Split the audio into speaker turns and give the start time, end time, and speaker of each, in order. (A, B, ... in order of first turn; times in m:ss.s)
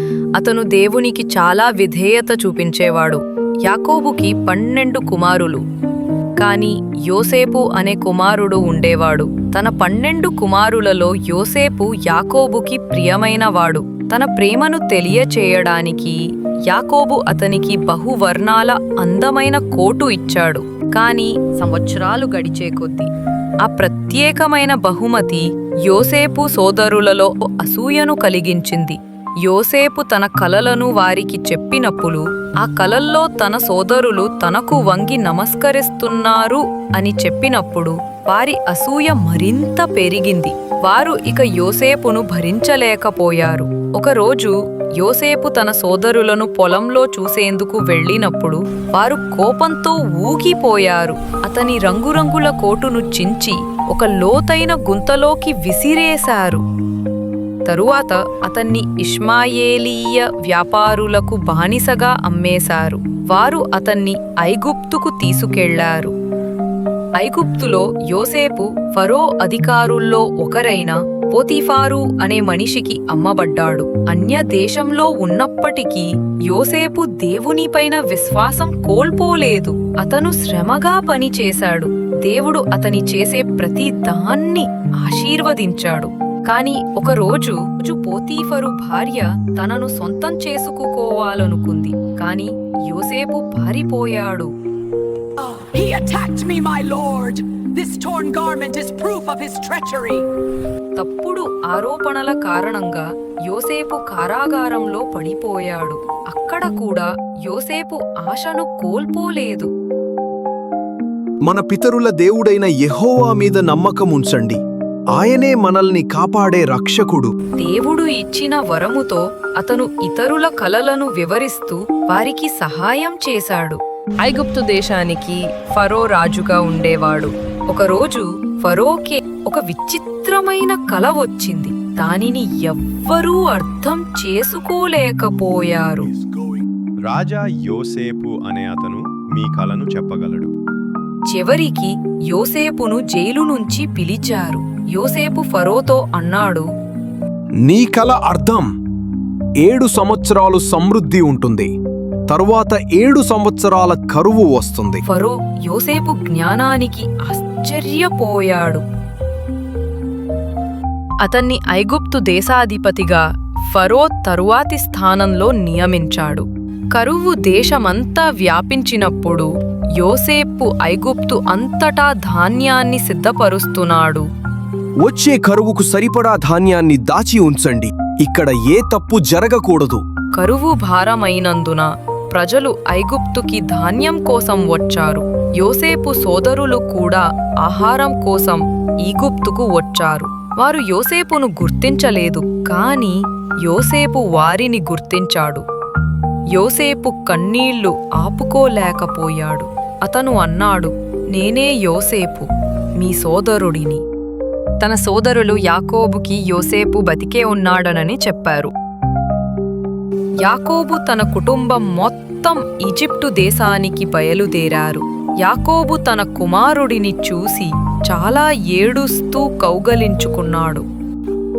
0:00.4-0:05.6 A
0:06.4-0:23.1 A
0:23.6-0:56.6 A
0:57.7-1:06.1 A
1:07.2-1:34.5 A
1:35.4-1:40.3 B
1:41.0-1:49.7 A
1:51.4-1:54.6 C
1:55.1-1:57.3 C
1:57.6-2:16.1 A
2:17.0-2:20.5 D
2:21.3-2:26.7 A
2:27.7-2:28.7 C
2:29.6-2:31.7 C
2:32.3-2:35.0 C
2:35.1-2:38.8 A
2:41.2-2:54.3 A
2:55.0-3:00.0 C
3:00.4-3:15.6 A
3:16.5-3:24.0 A
3:24.8-3:28.7 A
3:30.4-3:40.8 A